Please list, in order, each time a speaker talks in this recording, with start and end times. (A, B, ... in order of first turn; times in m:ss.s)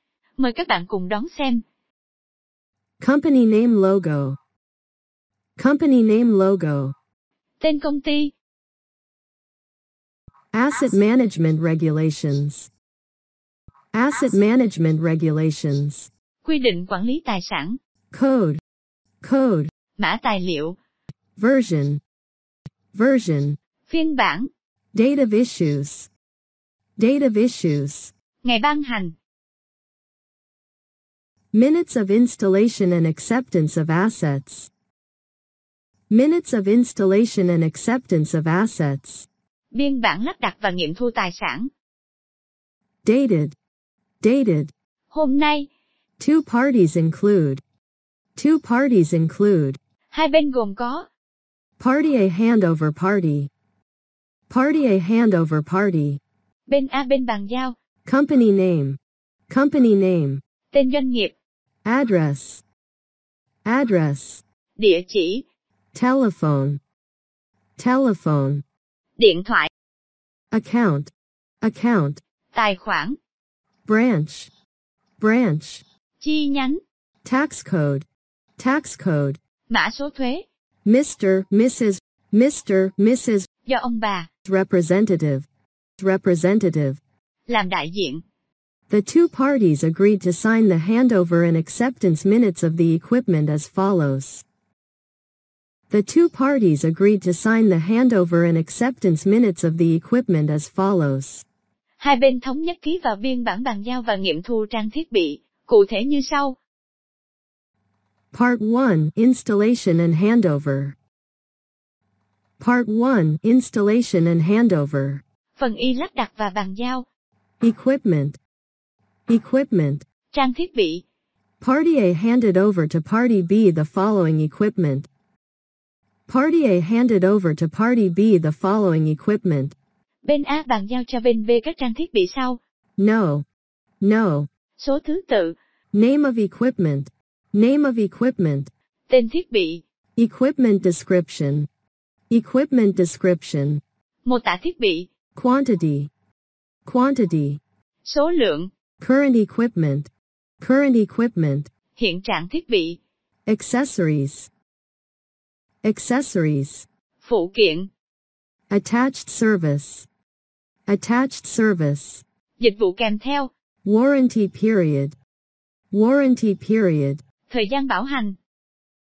0:00.4-0:01.6 A
0:03.0-0:04.4 B
0:05.6-0:06.9 B
0:07.6-0:08.3 A
0:10.5-0:12.7 B
0:13.9-0:16.1 B
0:16.4-0:17.8 A
0:18.1-0:18.6 B
0:19.2-0:19.7 B
0:20.0-0:20.8 A
0:21.4-0:22.0 B
0:22.9-0:23.6 B
0:23.9-0:24.5 A
0:24.9-0:26.1 B
0:27.0-0:28.1 B
0:28.4-0:29.2 A
0:31.5-0:34.7 B
0:36.1-0:39.3 B
0:39.7-0:41.7 A
0:43.0-0:43.6 B
0:44.2-0:44.7 B
0:45.1-0:45.7 A
0:46.2-0:47.6 B
0:48.4-0:49.8 B
0:50.1-0:51.1 A
0:51.8-0:53.5 B
0:54.5-0:56.2 B
0:56.7-0:57.7 A
0:58.0-1:00.4 B
1:00.7-1:01.3 A
1:01.8-1:02.6 B
1:03.6-1:04.4 B
1:04.8-1:05.4 A
1:05.9-1:06.8 B
1:07.8-1:08.6 B
1:09.2-1:09.7 A
1:10.5-1:12.2 B
1:12.5-1:13.2 A
1:13.9-1:14.5 B
1:15.2-1:15.8 B
1:16.2-1:16.8 A
1:17.2-1:18.1 B
1:18.6-1:19.4 B
1:19.7-1:20.4 A
1:20.8-1:23.5 B
1:23.6-1:24.3 A
1:24.4-1:25.5 B
1:26.0-1:27.0 B
1:27.5-1:28.2 A
1:28.9-1:34.4 B
1:35.9-1:41.4 B
1:42.0-1:46.6 A
1:48.3-1:51.0 B
1:52.6-1:55.2 B
1:55.6-1:57.0 A
1:57.6-1:58.4 B
1:59.3-2:00.0 B
2:00.3-2:01.0 A
2:01.6-2:05.1 B
2:06.3-2:09.8 B
2:10.2-2:12.6 A
2:13.0-2:13.4 B
2:14.0-2:14.5 B
2:14.8-2:15.6 A
2:15.9-2:18.7 B
2:19.1-2:19.8 A
2:20.2-2:21.7 B
2:22.3-2:23.8 B
2:24.2-2:25.1 A
2:25.3-2:26.1 B
2:26.8-2:27.6 B
2:28.0-2:28.7 A
2:29.0-2:31.7 B
2:31.9-2:33.0 A
2:33.5-2:34.5 B
2:35.8-2:36.9 B
2:37.2-2:37.9 A
2:38.7-2:40.1 B
2:40.9-2:42.2 B
2:42.6-2:43.5 A
2:43.8-2:45.2 B
2:45.9-2:47.2 B
2:47.5-2:48.4 A